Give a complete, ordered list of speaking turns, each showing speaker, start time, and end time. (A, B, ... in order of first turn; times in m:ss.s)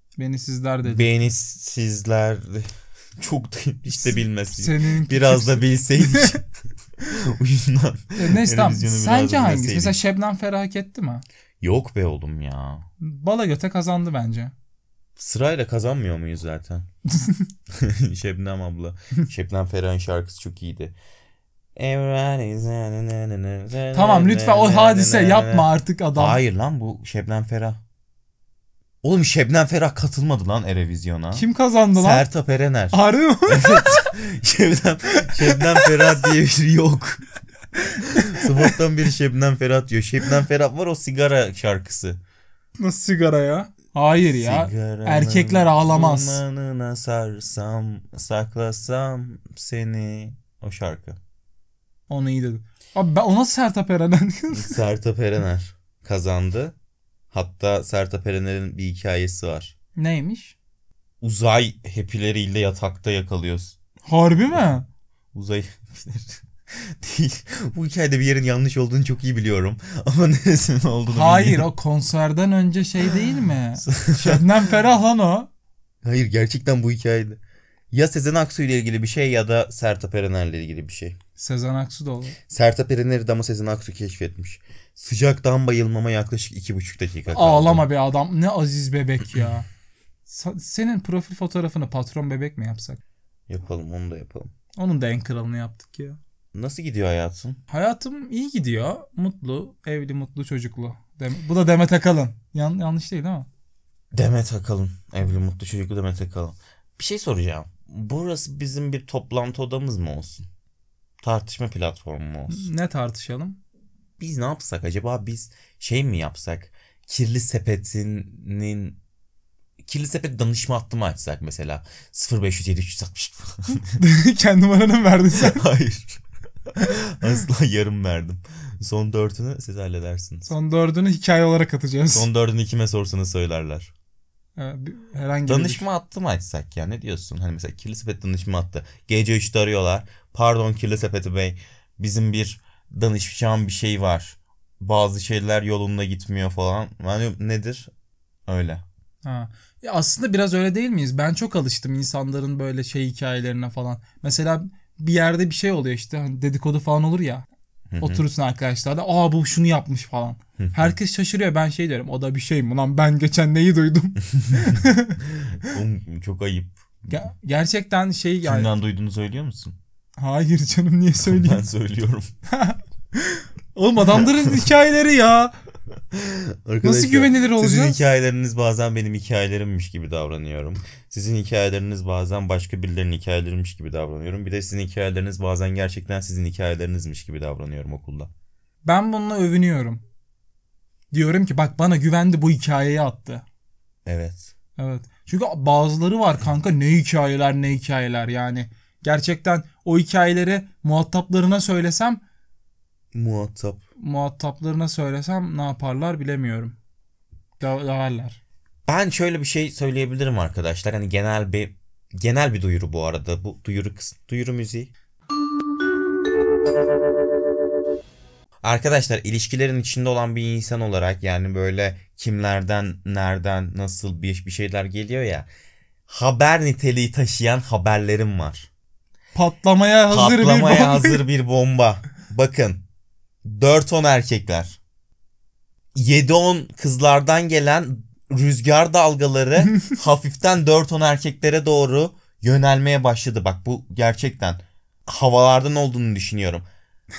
0:00.2-0:01.1 A
0:00.8-0:02.7 B
0:03.2-0:06.4 B
0:03.9-0:06.4 A
0:07.1-0:10.0 B
0:08.2-0:11.2 A
0:11.6-0:12.8 B
0:13.0-0:14.5 A
0:15.2-0:16.8 B
0:17.8-0:21.0 B
0:21.8-0:27.8 B
0:23.9-0:26.4 A
0:29.0-0:37.2 B
0:31.3-0:32.2 A
0:32.9-0:34.1 A
0:35.2-0:36.2 A
0:38.2-0:42.2 B
0:42.8-0:46.4 A
0:44.2-0:51.2 B
0:52.1-0:54.7 A
0:54.5-0:56.8 B
0:57.3-0:59.8 B
1:00.0-1:00.6 A
1:01.2-1:03.8 B
1:04.1-1:04.8 A
1:04.5-1:04.8 B
1:05.3-1:11.7 B
1:11.1-1:15.5 A
1:13.8-1:14.7 B
1:16.0-1:17.4 B
1:17.9-1:21.2 B
1:21.4-1:22.4 A
1:22.5-1:27.8 B
1:27.3-1:29.7 A
1:30.3-1:33.0 A
1:33.5-1:34.5 B
1:34.8-1:36.2 A
1:36.6-1:37.6 B
1:37.7-1:43.5 A
1:44.1-1:50.4 B
1:51.2-1:52.7 B
1:52.5-1:53.6 A
1:54.2-1:59.0 B
1:59.8-2:04.0 B
2:04.0-2:05.6 A
2:05.3-2:06.2 B
2:06.8-2:10.5 B
2:10.4-2:12.3 A
2:12.1-2:13.9 B
2:14.6-2:15.8 A
2:15.5-2:27.9 B
2:28.5-2:28.8 B
2:29.2-2:37.4 A
2:37.9-2:38.2 B
2:38.0-2:45.2 A
2:40.6-2:40.9 B
2:45.5-2:47.2 B
2:47.1-2:48.7 A
2:48.4-2:49.7 B
2:50.2-2:51.6 A
2:51.2-2:52.3 B
2:52.5-2:55.5 A
2:54.1-2:54.4 B
2:56.1-3:08.3 B
2:56.8-2:58.0 A
3:08.8-3:10.0 A
3:11.1-3:13.4 A
3:14.1-3:14.5 B
3:14.8-3:22.2 A
3:23.1-3:23.8 B
3:24.0-3:26.8 A
3:27.6-3:28.4 A
3:28.9-3:34.9 B
3:38.6-3:45.5 B
3:46.1-3:48.7 B
3:49.3-3:51.2 A
3:50.1-3:52.8 B
3:53.4-3:54.8 B
3:55.9-4:06.6 B